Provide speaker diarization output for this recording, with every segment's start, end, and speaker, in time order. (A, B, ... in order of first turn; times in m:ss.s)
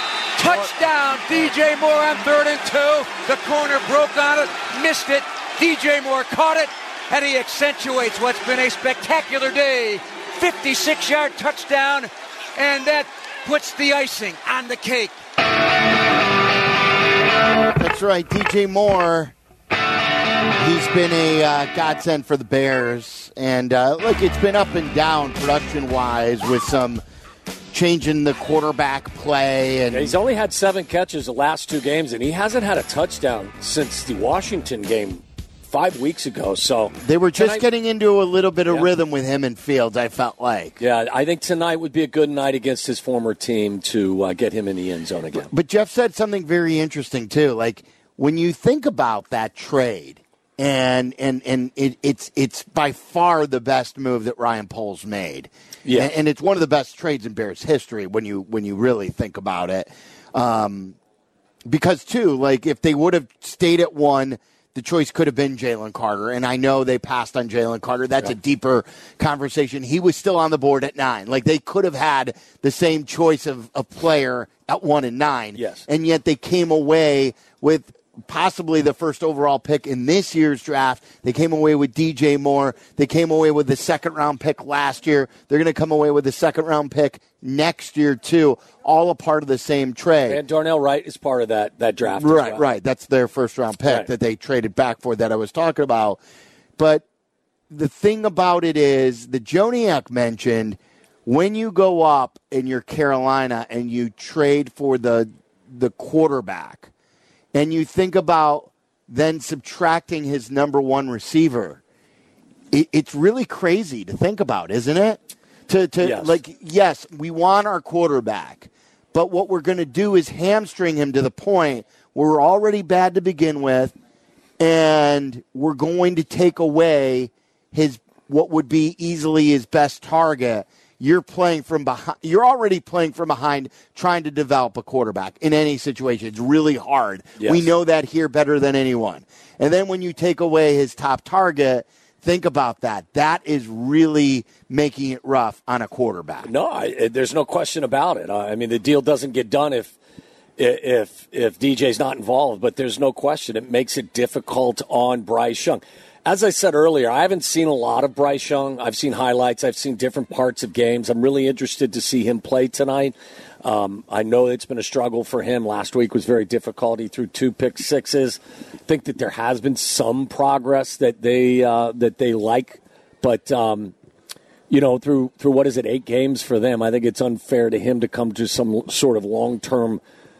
0:00.4-0:15.1 A
0:17.7-0:19.3 B
0:20.6-0:27.0 B
0:27.7-0:30.1 B
0:29.9-0:37.6 C
0:37.0-0:40.8 B
0:40.8-0:45.5 C
0:45.3-1:01.0 B
0:55.8-0:56.1 C
1:01.6-1:30.4 B
1:15.6-1:15.8 C
1:30.3-1:32.6 C
1:32.2-1:36.2 B
1:36.8-1:37.0 B
1:37.7-1:46.9 B
1:47.5-1:51.8 B
1:52.7-2:03.9 B
1:56.0-1:56.4 C
2:04.6-2:26.5 B
2:17.4-2:17.7 C
2:26.4-2:29.9 C
2:30.6-2:53.9 C
2:54.7-3:00.0 C